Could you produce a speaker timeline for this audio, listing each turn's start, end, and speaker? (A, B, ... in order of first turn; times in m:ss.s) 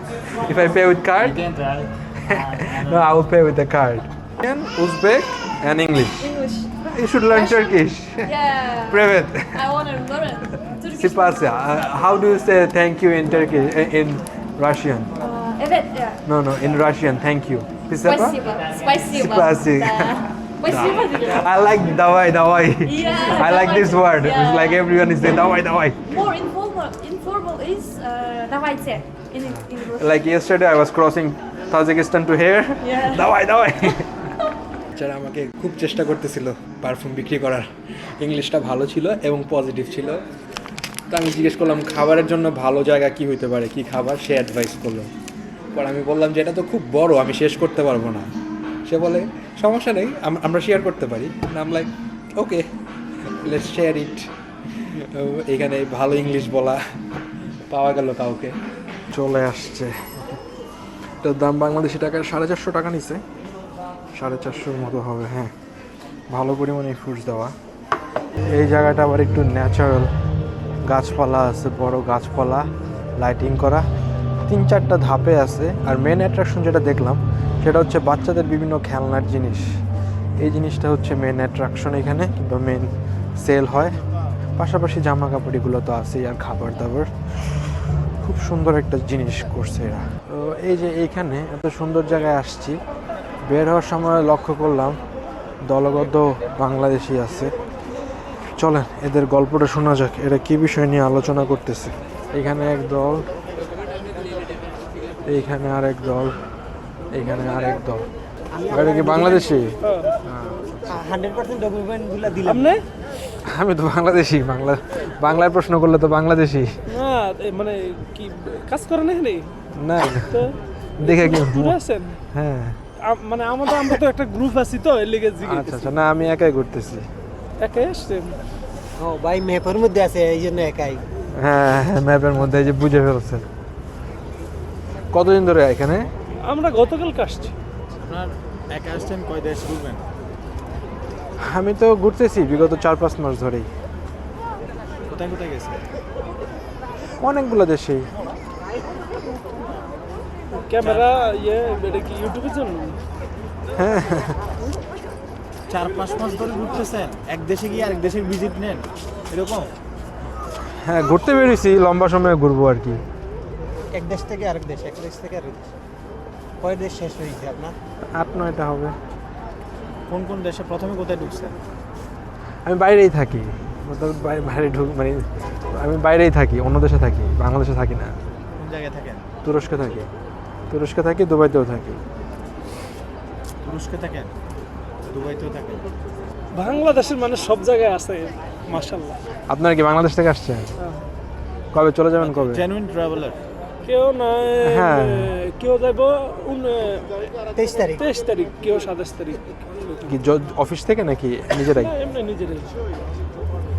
0:00.2-0:01.5 A
0:01.2-0:03.0 B
0:02.2-0:06.3 A
0:06.2-0:12.0 C
0:06.8-0:09.6 A
0:11.0-0:15.1 A
0:15.2-0:16.2 C
0:16.2-0:18.4 A
0:18.0-0:21.5 C
0:18.9-0:26.0 A
0:22.8-0:24.9 C
0:26.0-0:30.2 C
0:29.4-0:34.3 A
0:32.8-0:33.3 C
0:34.9-0:40.2 A
0:41.1-0:45.1 A
0:45.7-0:48.3 A
0:48.9-0:52.6 A
0:53.2-0:54.3 A
0:54.9-0:56.8 A
0:57.7-0:58.5 A
0:59.1-1:00.4 A
1:01.2-1:03.2 A
1:04.1-1:05.5 A
1:06.3-1:07.5 A
1:08.5-1:10.1 A
1:10.9-1:12.7 A
1:13.2-1:13.8 A
1:14.5-1:19.6 A
1:20.4-1:23.9 A
1:24.6-1:27.6 A
1:28.2-1:32.8 A
1:33.5-1:35.0 A
1:35.7-1:37.5 A
1:38.6-1:43.2 A
1:45.3-1:46.3 A
1:47.1-1:48.0 A
1:48.5-1:49.6 D
1:48.7-1:50.8 A
1:49.8-1:50.1 E
1:50.9-1:52.7 D
1:52.4-1:52.8 E
1:53.4-1:56.7 A
1:56.9-1:59.4 E
1:59.7-2:00.4 A
2:00.3-2:02.2 E
2:01.0-2:01.8 A
2:02.3-2:02.8 A
2:03.0-2:05.9 E
2:05.4-2:07.0 A
2:07.6-2:08.4 E
2:09.0-2:11.0 D
2:11.4-2:13.4 A
2:15.1-2:16.0 A
2:16.4-2:17.6 E
2:17.9-2:20.0 B
2:21.4-2:23.7 A
2:25.1-2:25.8 B
2:27.2-2:28.1 A
2:30.6-2:33.0 E
2:30.8-2:31.1 B
2:33.8-2:34.4 A
2:35.7-2:39.7 B
2:40.7-2:43.0 A
2:43.9-2:45.6 D
2:46.6-2:47.8 D
2:48.2-2:48.9 A
2:50.1-2:51.6 B
2:52.6-2:58.1 A
2:58.6-2:59.2 B
2:59.4-3:00.1 A
3:00.7-3:02.0 A
3:03.6-3:04.3 B
3:05.1-3:05.9 B
3:06.5-3:09.2 E
3:09.5-3:10.7 A
3:11.7-3:12.6 A
3:12.2-3:13.4 B
3:13.8-3:17.2 E
3:14.6-3:15.3 A
3:17.5-3:18.0 D
3:18.0-3:20.0 E
3:20.0-3:21.9 A
3:21.9-3:22.7 E